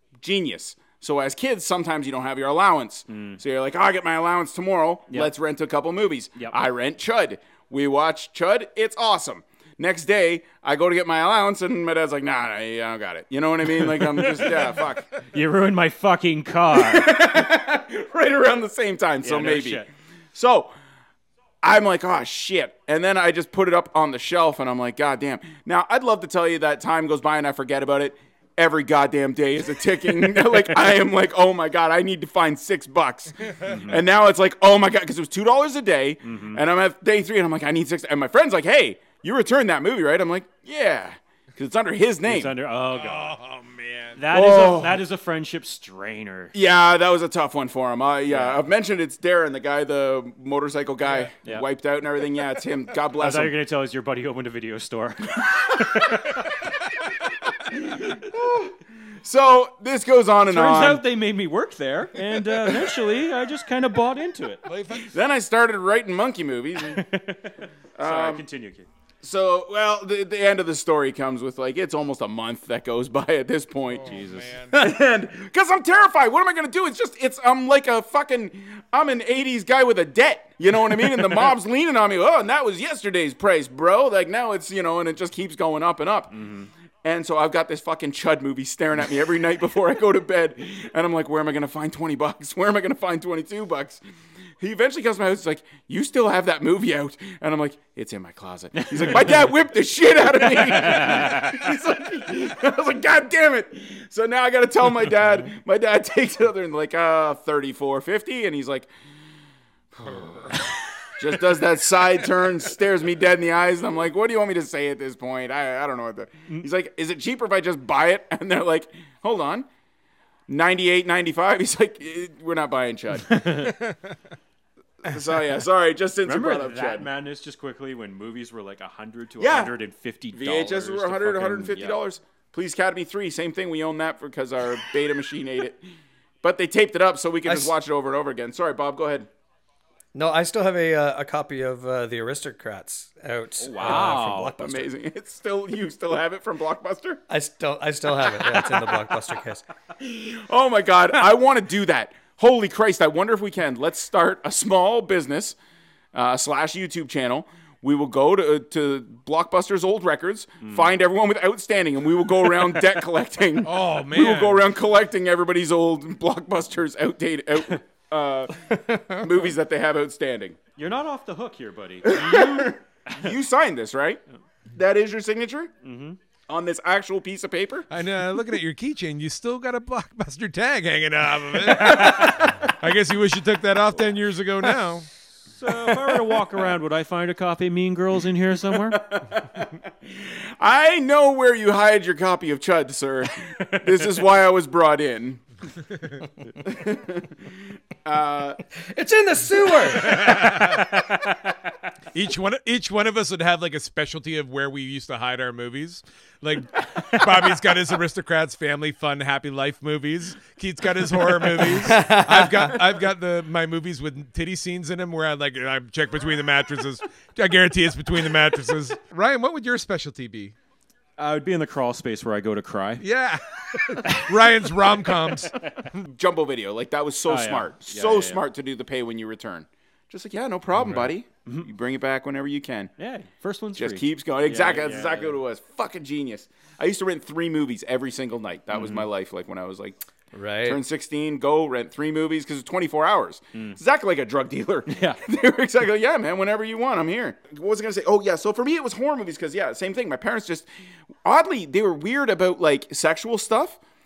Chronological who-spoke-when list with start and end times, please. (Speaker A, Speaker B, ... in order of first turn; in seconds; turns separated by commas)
Speaker A: 0.2-15.1, Speaker B: 3.1-3.4, Speaker B: 13.8-14.8, Speaker B: 15.3-17.4, Speaker A: 16.7-20.7, Speaker B: 19.2-19.9, Speaker A: 21.6-42.5, Speaker B: 30.2-30.8, Speaker B: 33.6-34.0, Speaker B: 36.2-36.6, Speaker B: 42.2-43.4, Speaker C: 42.9-44.2, Speaker B: 44.2-46.5, Speaker A: 44.3-45.0, Speaker A: 46.5-53.5, Speaker B: 48.3-48.6, Speaker B: 53.2-56.5, Speaker A: 57.7-61.0, Speaker B: 60.5-64.7, Speaker C: 64.7-65.2, Speaker A: 65.0-67.0, Speaker B: 66.9-68.9, Speaker A: 68.0-68.4, Speaker A: 69.2-74.2, Speaker C: 73.9-74.9, Speaker B: 74.0-74.6, Speaker A: 74.7-86.3, Speaker B: 81.2-81.5, Speaker B: 86.3-86.7, Speaker A: 87.0-94.0, Speaker A: 94.6-108.9, Speaker B: 98.8-99.5, Speaker B: 100.3-101.7, Speaker A: 110.0-110.6, Speaker A: 111.2-119.7, Speaker A: 120.5-123.5, Speaker B: 123.2-123.8, Speaker A: 125.0-127.1, Speaker B: 126.2-132.0, Speaker A: 129.4-129.7, Speaker A: 130.3-135.9, Speaker A: 136.4-139.3, Speaker D: 137.4-137.7, Speaker D: 140.1-144.9, Speaker B: 143.6-144.5, Speaker A: 143.8-147.2, Speaker D: 147.3-149.7, Speaker A: 150.0-155.6, Speaker A: 156.1-170.6, Speaker C: 163.6-164.7, Speaker B: 170.8-173.3, Speaker A: 172.1-174.2, Speaker A: 174.7-175.7, Speaker B: 175.8-176.2, Speaker A: 176.5-177.9, Speaker C: 177.9-185.1, Speaker B: 181.7-182.3, Speaker B: 185.5-189.0, Speaker A: 188.9-195.4, Speaker B: 193.7-194.3, Speaker C: 196.0-196.2, Speaker A: 196.7-197.3, Speaker A: 198.0-198.6, Speaker D: 198.8-200.8, Speaker C: 200.0-200.8, Speaker B: 200.4-201.5, Speaker C: 202.1-220.6, Speaker D: 211.7-212.8, Speaker B: 221.2-223.0, Speaker C: 223.0-226.0, Speaker B: 225.2-225.7, Speaker A: 226.1-232.9, Speaker B: 227.3-228.4, Speaker B: 233.0-235.4, Speaker A: 233.8-240.0, Speaker B: 238.7-239.1, Speaker D: 240.3-240.8, Speaker A: 240.6-250.7, Speaker B: 244.9-245.2, Speaker A: 251.2-253.8